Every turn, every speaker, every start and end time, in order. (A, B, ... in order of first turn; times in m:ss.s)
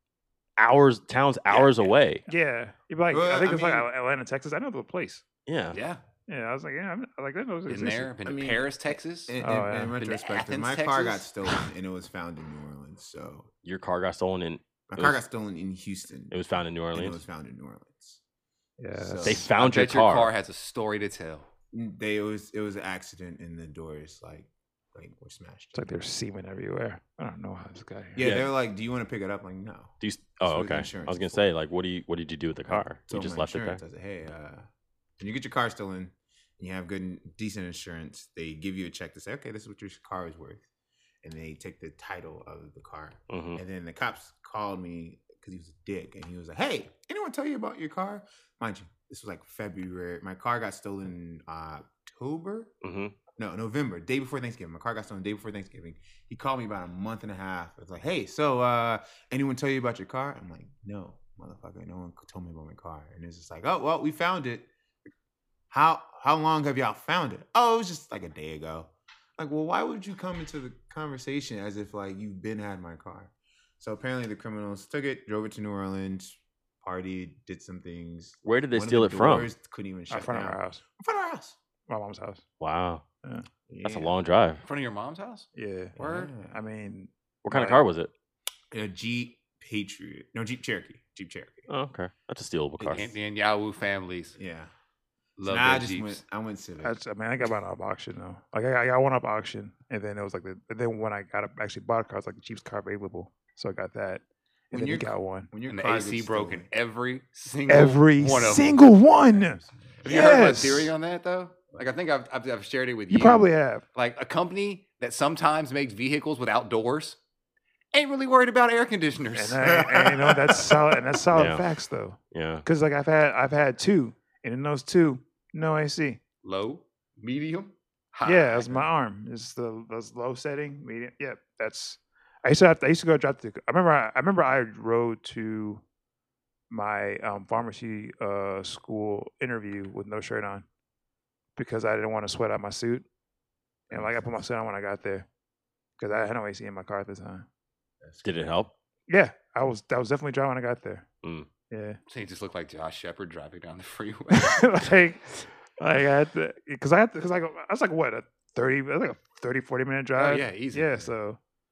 0:00.6-0:02.2 A
0:01.5-0:01.9 B
0:02.3-0:05.2 C
0:03.1-0:03.9 D
0:05.5-0:05.8 A
0:05.7-0:06.0 B
0:06.3-0:08.1 C
0:07.7-0:09.4 B
0:08.2-0:13.5 D
0:09.4-0:10.0 C
0:09.9-0:11.3 B
0:13.6-0:15.2 A
0:14.9-0:16.4 D
0:16.3-0:17.2 A
0:16.9-0:18.2 D
0:18.8-0:19.4 C
0:18.9-0:19.4 D
0:19.2-0:20.3 A
0:19.4-0:21.5 B
0:21.7-0:26.0 D
0:25.8-0:28.2 C
0:28.2-0:31.5 D
0:28.2-0:28.5 A
0:30.0-0:33.8 A
0:32.7-0:34.7 D
0:35.2-0:40.6 D
0:41.2-0:52.7 D
0:43.3-0:43.6 A
0:52.8-0:53.2 A
0:53.4-1:04.7 D
1:05.7-1:21.6 D
1:18.4-1:19.5 A
1:20.1-1:20.8 C
1:21.9-1:22.4 C
1:22.6-1:23.0 A
1:23.7-1:24.1 D
1:23.8-1:24.6 A
1:24.6-1:25.5 B
1:25.6-1:27.8 C
1:26.0-1:26.6 D
1:26.0-1:26.3 B
1:27.4-1:28.1 A
1:28.7-1:31.7 D
1:31.7-1:33.1 A
1:32.8-1:33.1 D
1:32.9-1:34.4 B
1:34.4-1:34.7 D
1:35.4-1:36.2 B
1:35.4-1:37.0 D
1:36.8-1:45.5 C
1:44.7-1:46.7 D
1:45.6-1:48.8 B
1:47.7-1:50.9 C
1:48.9-1:50.3 D
1:50.0-1:57.2 B
1:53.1-1:53.8 C
1:57.9-1:59.8 B
1:59.3-2:06.2 C
1:59.6-2:01.0 D
2:01.3-2:01.6 A
2:02.3-2:02.7 A
2:06.4-2:08.8 B
2:08.2-2:15.8 C
2:16.7-2:20.6 C
2:21.6-2:23.0 C
2:23.9-2:25.3 C
2:23.9-2:24.4 D
2:26.0-2:27.5 C
2:28.0-2:28.4 D
2:28.2-2:28.7 A
2:29.1-2:31.0 C
2:31.2-2:31.5 A
2:31.7-2:32.0 C
2:32.1-2:34.6 B
2:34.3-2:41.4 C
2:40.2-2:41.0 B